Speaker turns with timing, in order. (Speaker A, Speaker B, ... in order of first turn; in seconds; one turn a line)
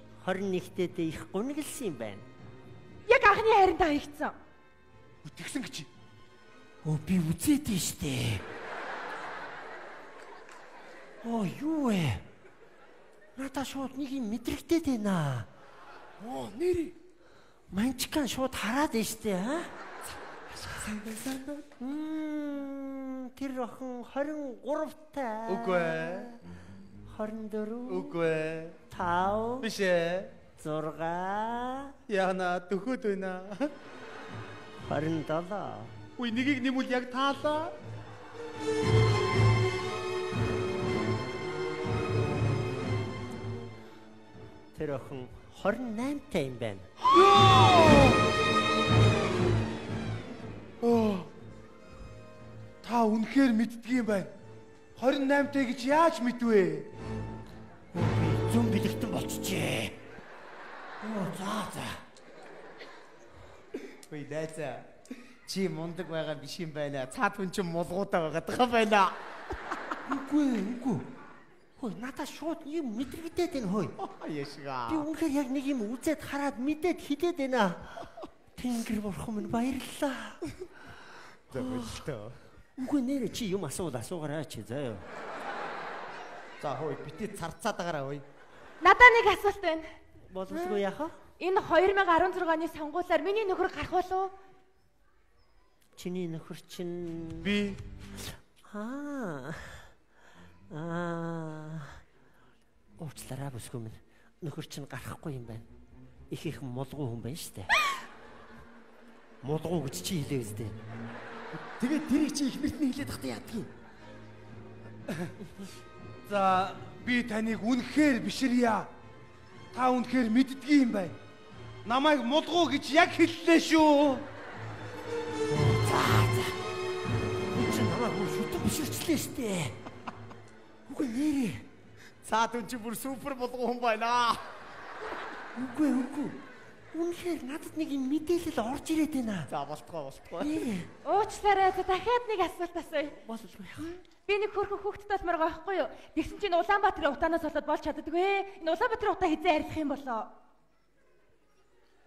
Speaker A: 0.2-2.3
Speaker B: 3.1-4.3
Speaker C: 5.2-5.9
Speaker A: 6.8-8.4
Speaker A: 11.2-12.2
Speaker A: 13.3-15.5
Speaker D: 16.2-16.9
Speaker A: 17.7-19.7
Speaker D: 20.6-21.6
Speaker A: 21.6-26.4
Speaker C: 25.5-26.3
Speaker A: 27.1-28.1
Speaker C: 27.9-28.8
Speaker A: 28.9-29.7
Speaker C: 29.6-30.3
Speaker A: 30.6-31.9
Speaker C: 32.1-33.7
Speaker A: 34.8-36.0
Speaker C: 36.2-37.7
Speaker A: 44.7-46.9
Speaker C: 47.0-48.2
Speaker C: 50.8-51.3
Speaker C: 52.8-54.3
Speaker C: 55.0-56.9
Speaker A: 57.9-60.0
Speaker A: 61.0-62.0
Speaker D: 64.1-64.9
Speaker D: 65.5-69.2
Speaker A: 70.1-71.1
Speaker A: 71.8-73.9
Speaker D: 74.0-75.1
Speaker A: 74.9-80.4
Speaker D: 81.5-82.4
Speaker A: 81.5-81.8
Speaker A: 82.8-85.0
Speaker D: 86.6-88.2
Speaker B: 88.8-89.8
Speaker A: 90.3-91.2
Speaker B: 91.4-94.3
Speaker A: 96.0-97.6
Speaker C: 97.4-97.7
Speaker A: 98.7-99.8
Speaker A: 100.7-102.0
Speaker A: 103.0-105.7
Speaker A: 106.3-107.7
Speaker A: 109.4-110.8
Speaker D: 111.8-113.7
Speaker C: 116.3-118.9
Speaker C: 119.7-121.1
Speaker C: 121.8-124.2
Speaker A: 125.5-126.5
Speaker A: 127.5-129.7
Speaker A: 130.9-131.6
Speaker D: 132.2-134.4
Speaker A: 135.5-136.4
Speaker A: 136.9-139.5
Speaker D: 139.5-140.7
Speaker A: 140.4-140.9
Speaker B: 141.0-143.2
Speaker A: 143.2-144.0
Speaker B: 144.3-150.3